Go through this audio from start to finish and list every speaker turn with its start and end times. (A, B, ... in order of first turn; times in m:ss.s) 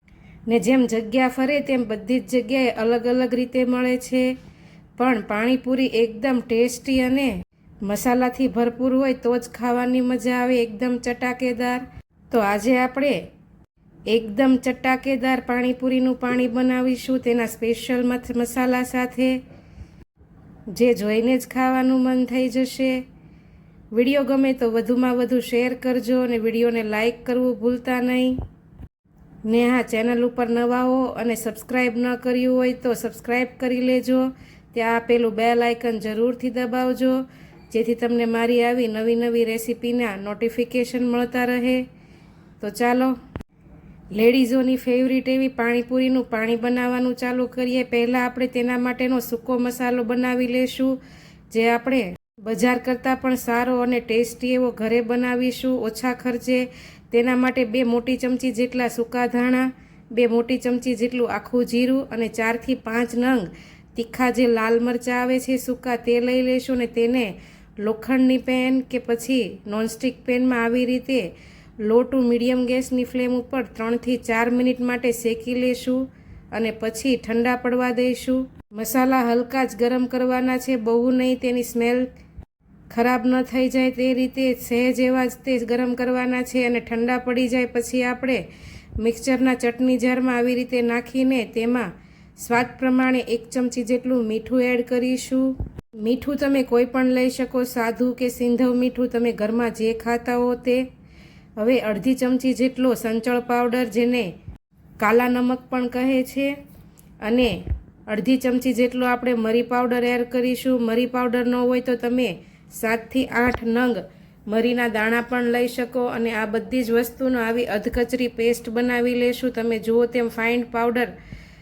0:00.5-0:04.3 A
0:05.0-0:13.2 A
0:14.1-0:19.4 A
0:20.7-0:23.0 A
0:23.9-0:28.4 A
0:29.4-0:41.8 A
0:42.6-0:43.1 A
0:44.1-0:51.0 A
0:51.5-1:22.1 A
1:22.9-1:28.4 A
1:29.0-1:40.8 A
1:41.6-1:44.3 A
1:45.0-1:46.5 A
1:47.2-2:01.1 A